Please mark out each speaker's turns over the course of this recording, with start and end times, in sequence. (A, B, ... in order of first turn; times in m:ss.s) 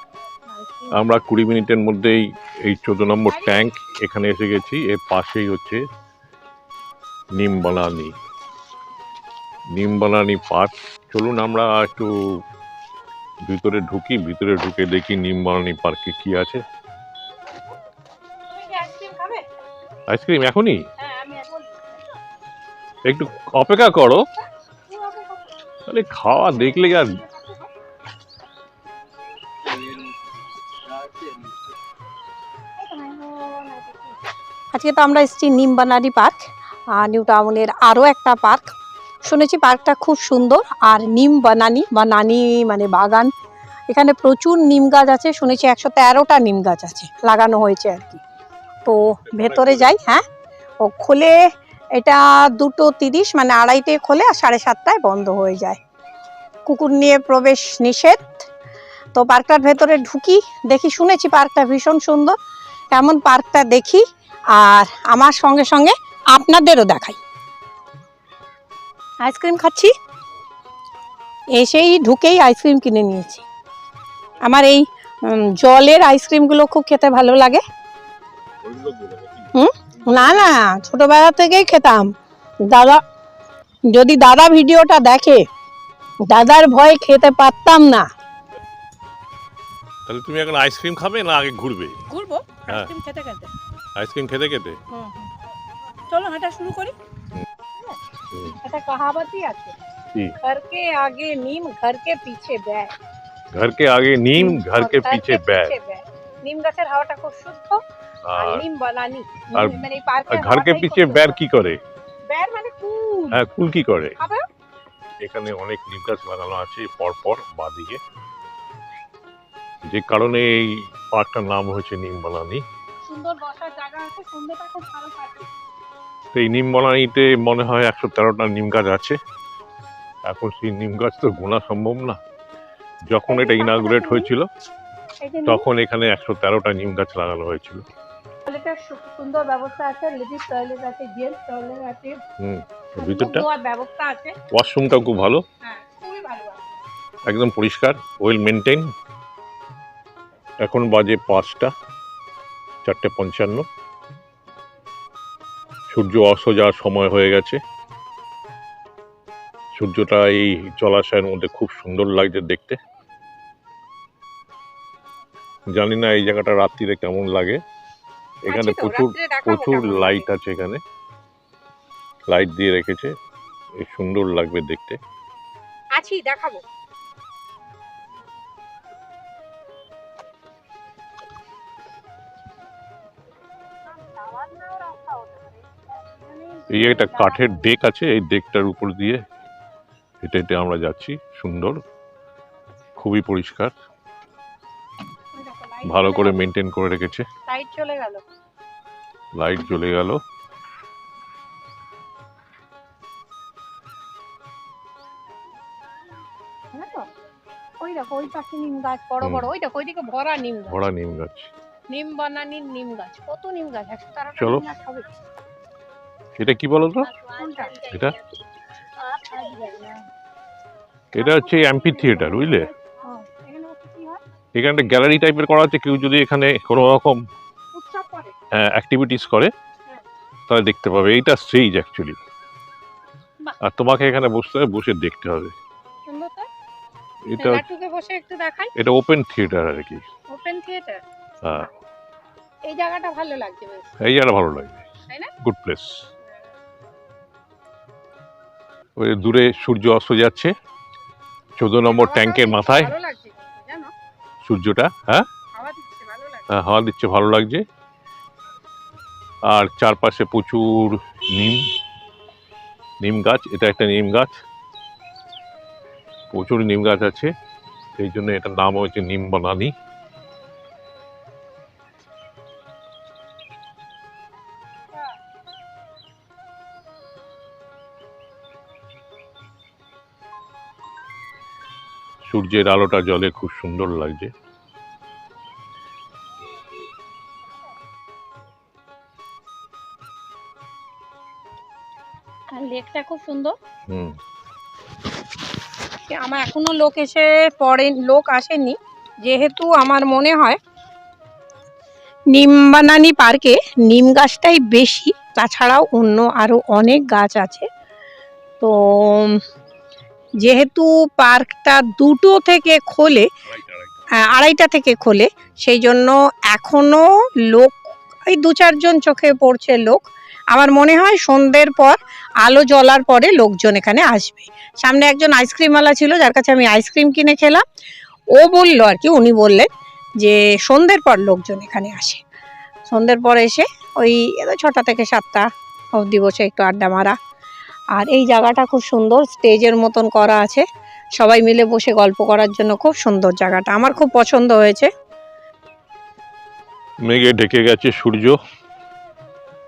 0:00.5-0:01.1 A
0:00.9-0:05.8 B
0:03.3-0:03.6 A
0:07.3-0:08.1 B
0:09.7-0:12.1 B
0:13.4-0:16.6 B
0:18.5-0:19.4 A
0:20.1-0:20.8 B
0:21.0-0:22.0 A
0:23.0-0:24.2 B
0:24.9-0:25.5 A
0:25.9-0:27.2 B
0:26.5-0:27.7 A
0:32.8-0:34.2 A
0:34.7-0:43.3 A
0:43.9-0:48.2 A
0:48.8-0:50.2 A
0:49.3-0:49.9 B
0:50.8-0:51.4 A
0:51.9-0:55.8 A
0:56.6-0:58.5 A
0:59.1-1:02.3 A
1:02.9-1:07.2 A
1:09.2-1:09.9 A
1:11.5-1:13.4 A
1:14.4-1:17.6 A
1:18.8-1:19.1 B
1:19.5-1:22.1 A
1:22.7-1:23.0 A
1:23.9-1:25.4 A
1:26.3-1:28.1 A
1:30.0-1:32.0 B
1:32.1-1:33.5 A
1:34.0-1:34.8 B
1:34.9-1:35.3 A
1:36.1-1:36.9 A
1:38.6-1:39.8 A
1:40.4-1:42.9 A
1:43.5-1:45.7 B
1:44.3-1:47.8 A
1:48.2-1:48.6 B
1:48.4-1:51.4 A
1:49.5-1:51.8 B
1:52.3-1:53.4 A
1:53.3-1:54.2 B
1:54.2-1:54.4 A
1:55.2-1:58.0 B
1:59.9-2:02.6 B
2:03.0-2:05.5 A
2:06.3-2:09.2 B
2:10.2-2:12.2 B
2:13.1-2:14.5 B
2:13.3-2:14.3 A
2:15.2-2:15.6 A
2:15.4-2:17.8 B
2:18.4-2:22.2 A
2:22.4-2:23.4 B
2:23.0-2:24.4 A
2:24.5-2:25.4 B
2:25.6-2:26.7 A
2:27.3-2:28.9 B
2:30.6-2:31.7 B
2:32.8-2:33.6 B
2:35.9-2:37.6 B
2:39.8-2:42.8 B
2:45.7-2:47.6 B
2:48.4-2:50.8 B
2:48.5-2:50.3 A
2:52.3-2:53.1 B
2:53.8-2:55.0 B
2:55.9-2:56.6 A
3:03.8-3:07.7 A
3:06.7-3:09.2 B
3:10.2-3:11.8 B
3:13.0-3:13.7 B
3:15.3-3:16.4 A
3:15.8-3:17.2 B
3:17.4-3:18.2 A
3:19.3-3:20.2 B
3:26.7-3:27.1 A
3:27.8-3:30.8 A
3:29.2-3:29.5 B
3:30.7-3:31.5 B
3:31.9-3:35.1 A
3:34.4-3:34.6 B
3:36.4-3:37.1 B
3:37.0-3:38.2 A
3:37.9-3:38.1 B
3:39.0-3:40.0 A
3:41.1-3:42.7 B
3:41.2-3:44.2 A
3:44.5-3:47.2 B
3:47.7-3:48.3 A
3:48.5-3:49.5 B
3:50.5-3:52.2 B
3:53.6-3:55.5 B
3:56.1-3:56.5 A
3:57.3-3:57.6 B
3:57.4-3:58.7 A
3:58.8-4:00.0 B
4:00.3-4:01.0 A
4:01.4-4:01.7 B
4:02.6-4:03.9 A
4:04.0-4:04.8 B
4:05.1-4:05.3 A
4:05.4-4:06.0 B
4:09.0-4:10.5 B
4:11.6-4:12.9 B
4:11.8-4:13.9 A
4:14.4-4:15.3 B
4:15.5-4:16.5 A
4:16.5-4:17.6 B
4:19.5-4:21.7 B
4:23.0-4:24.3 B
4:26.3-4:27.3 B
4:28.0-4:29.7 B
4:42.2-4:44.3 B
4:52.5-4:53.5 A
4:53.9-4:54.2 B
4:56.1-5:00.6 A
5:02.3-5:07.7 A
5:08.6-5:09.4 A
5:10.4-5:13.3 A
5:13.5-5:14.1 B
5:14.2-5:27.6 A
5:28.3-5:29.7 A
5:30.2-5:32.2 A
5:32.9-5:37.2 A
5:37.9-5:40.6 A
5:41.2-5:44.9 A
5:47.0-5:48.4 B